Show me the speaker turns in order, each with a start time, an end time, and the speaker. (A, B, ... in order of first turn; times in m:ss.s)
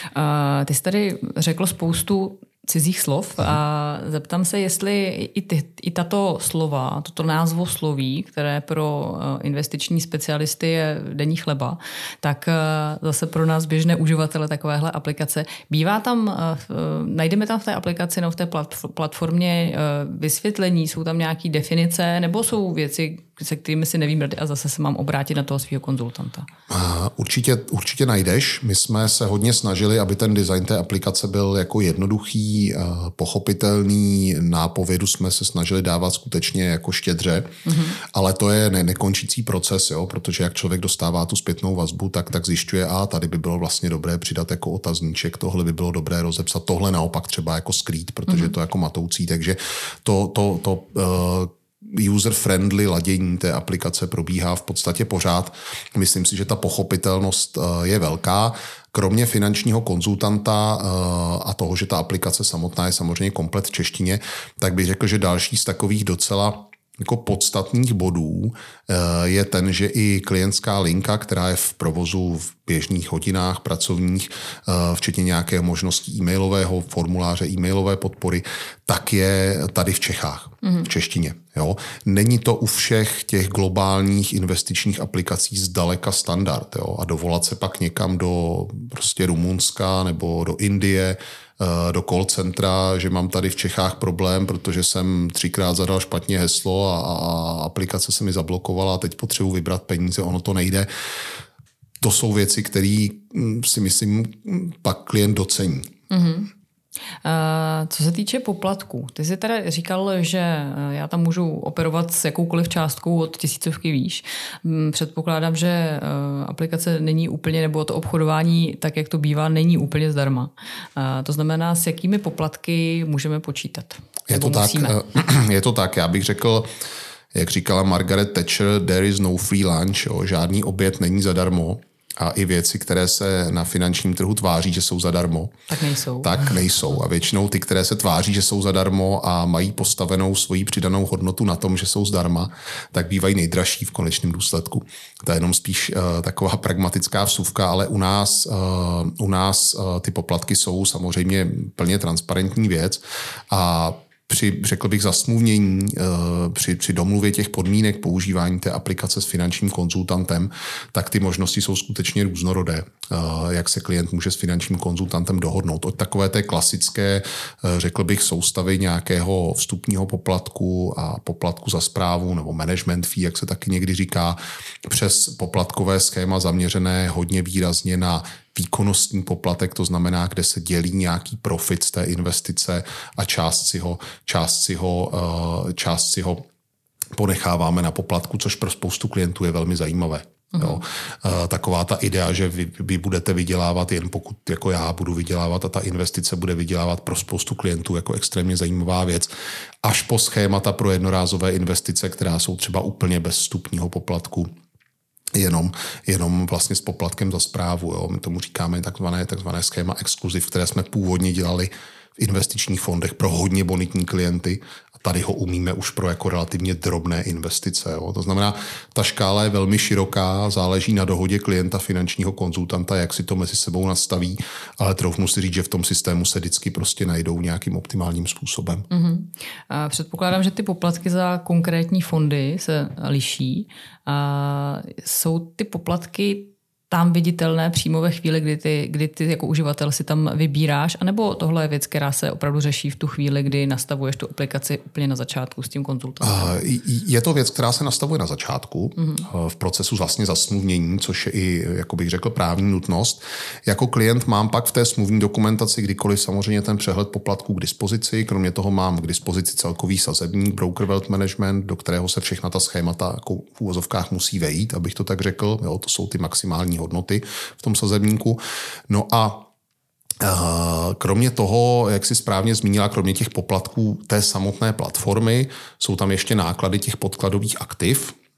0:00.1-0:26.5 A
0:26.7-1:40.9 B
0:37.7-0:38.0 A
0:48.3-0:48.5 A
1:20.6-1:20.9 A
1:42.0-1:45.9 B
1:46.1-1:46.5 A
1:47.2-2:05.0 A
2:04.3-2:06.7 B
2:07.3-2:15.5 B
2:15.7-2:16.6 A
2:16.2-3:06.4 B
3:07.1-3:19.3 B
3:10.5-3:10.8 A
3:19.8-3:24.5 B
3:25.3-3:48.9 B
3:48.9-4:06.6 A
4:06.2-4:29.5 B
4:09.0-4:09.2 A
4:30.2-4:38.2 B